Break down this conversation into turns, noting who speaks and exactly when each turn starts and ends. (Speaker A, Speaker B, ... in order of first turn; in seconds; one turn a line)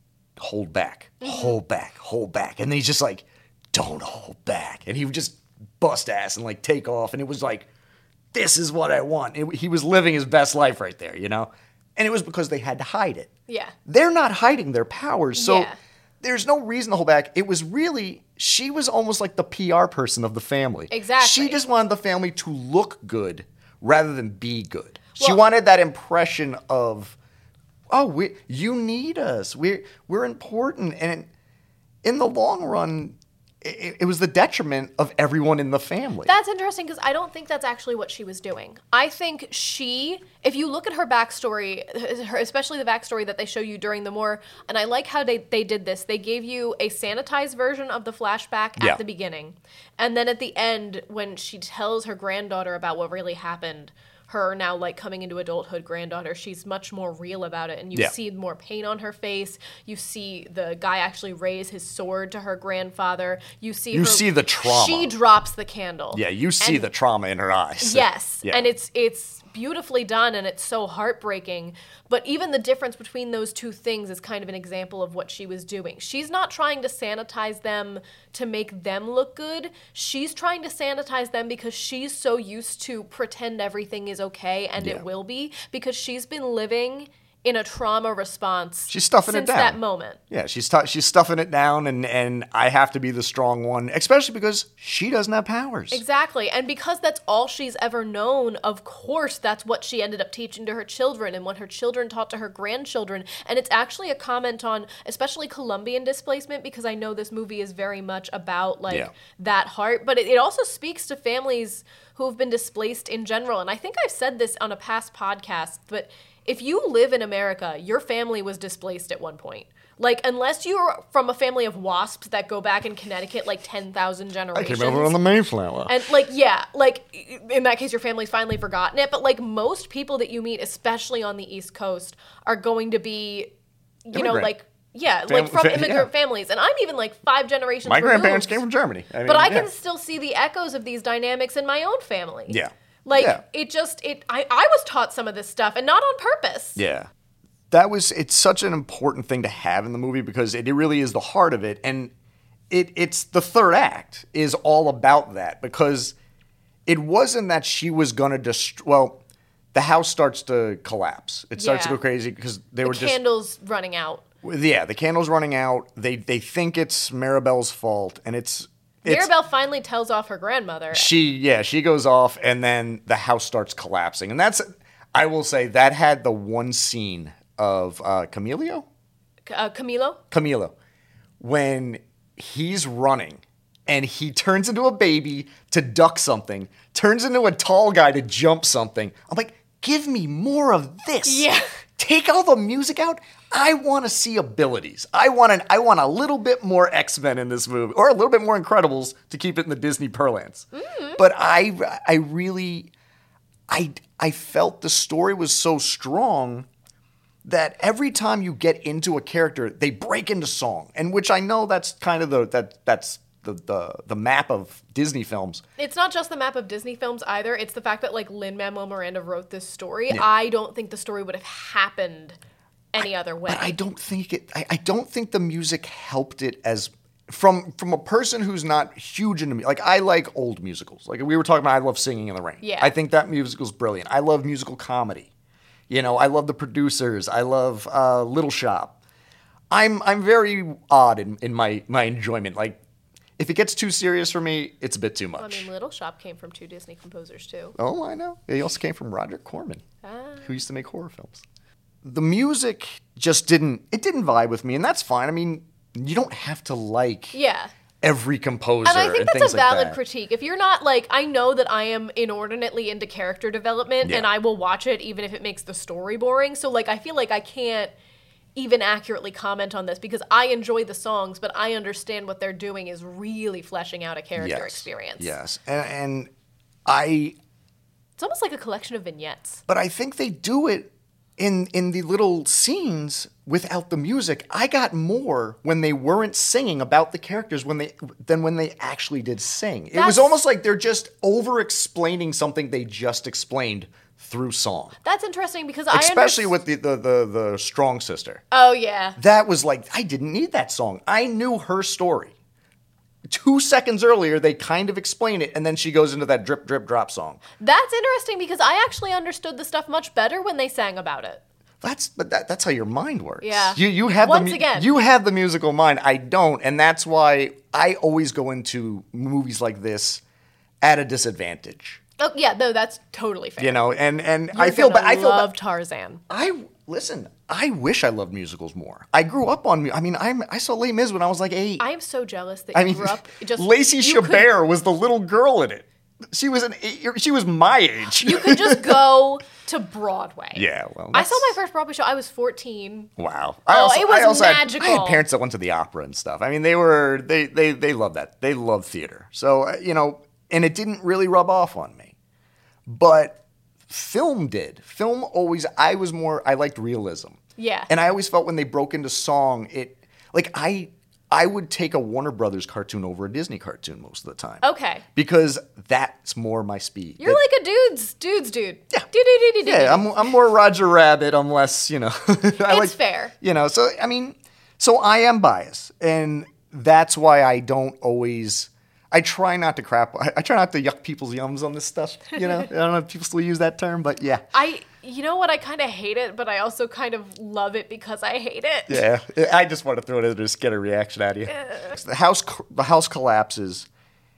Speaker A: 0.4-7.7
Speaker B: 1.2-1.6
Speaker A: 8.3-13.3
Speaker B: 13.5-13.7
Speaker A: 13.9-15.7
Speaker B: 15.4-15.8
Speaker A: 16.2-27.1
Speaker B: 20.9-21.6
Speaker A: 27.9-31.3
Speaker A: 32.0-36.3
Speaker B: 36.2-66.9
Speaker A: 63.9-65.1
Speaker A: 66.1-68.7
Speaker B: 67.8-90.2
Speaker A: 84.8-85.0
Speaker A: 88.9-89.8
Speaker A: 90.3-96.0
Speaker B: 95.9-125.2
Speaker A: 124.5-126.0
Speaker B: 125.9-133.5
Speaker B: 134.1-138.6
Speaker A: 134.1-134.5
Speaker A: 135.3-136.1
Speaker A: 137.8-139.7
Speaker B: 139.2-146.8
Speaker A: 142.5-143.4
Speaker A: 146.8-147.1
Speaker A: 147.7-152.1
Speaker A: 152.7-156.1
Speaker A: 156.9-159.2
Speaker A: 159.7-163.2
Speaker B: 161.6-162.0
Speaker B: 162.8-164.2
Speaker A: 164.4-169.3
Speaker B: 169.0-171.1
Speaker A: 170.9-178.8
Speaker B: 179.5-180.2
Speaker A: 180.3-180.7
Speaker A: 181.4-191.5
Speaker B: 191.2-191.7
Speaker A: 192.0-200.7
Speaker B: 200.7-201.2
Speaker A: 201.2-202.9
Speaker A: 203.7-206.7
Speaker A: 207.4-215.6
Speaker B: 215.8-222.4
Speaker B: 222.9-223.7
Speaker A: 223.0-235.3
Speaker B: 232.6-232.9
Speaker A: 235.9-238.9
Speaker A: 239.7-242.8
Speaker A: 243.4-245.7
Speaker B: 245.4-247.8
Speaker A: 247.8-249.8
Speaker B: 250.0-250.6
Speaker A: 250.4-251.4
Speaker A: 252.0-257.4
Speaker B: 257.3-257.7
Speaker A: 258.0-260.0
Speaker B: 258.9-267.9
Speaker B: 268.6-275.3
Speaker A: 274.4-276.3
Speaker A: 276.9-277.4
Speaker B: 278.2-279.6
Speaker A: 279.7-294.9
Speaker B: 289.9-290.4
Speaker B: 295.0-296.5
Speaker A: 295.9-298.4
Speaker B: 298.5-299.2
Speaker A: 299.2-302.3
Speaker A: 303.3-307.4
Speaker B: 307.6-311.4
Speaker A: 311.8-320.2
Speaker B: 313.4-314.9
Speaker A: 320.8-322.0
Speaker B: 322.2-323.8
Speaker A: 323.6-325.5
Speaker B: 324.5-326.2
Speaker A: 326.3-331.9
Speaker B: 331.8-334.5
Speaker A: 332.7-339.0
Speaker B: 338.2-343.1
Speaker A: 340.5-341.6
Speaker A: 343.2-352.1
Speaker B: 343.7-345.2
Speaker A: 352.9-357.4
Speaker B: 357.6-357.9
Speaker A: 357.9-364.6
Speaker B: 364.6-365.0
Speaker A: 365.1-367.4
Speaker B: 367.2-370.3
Speaker A: 369.6-384.4
Speaker B: 372.7-373.3
Speaker B: 382.4-382.6
Speaker B: 384.5-389.0
Speaker A: 388.9-393.9
Speaker B: 391.5-391.9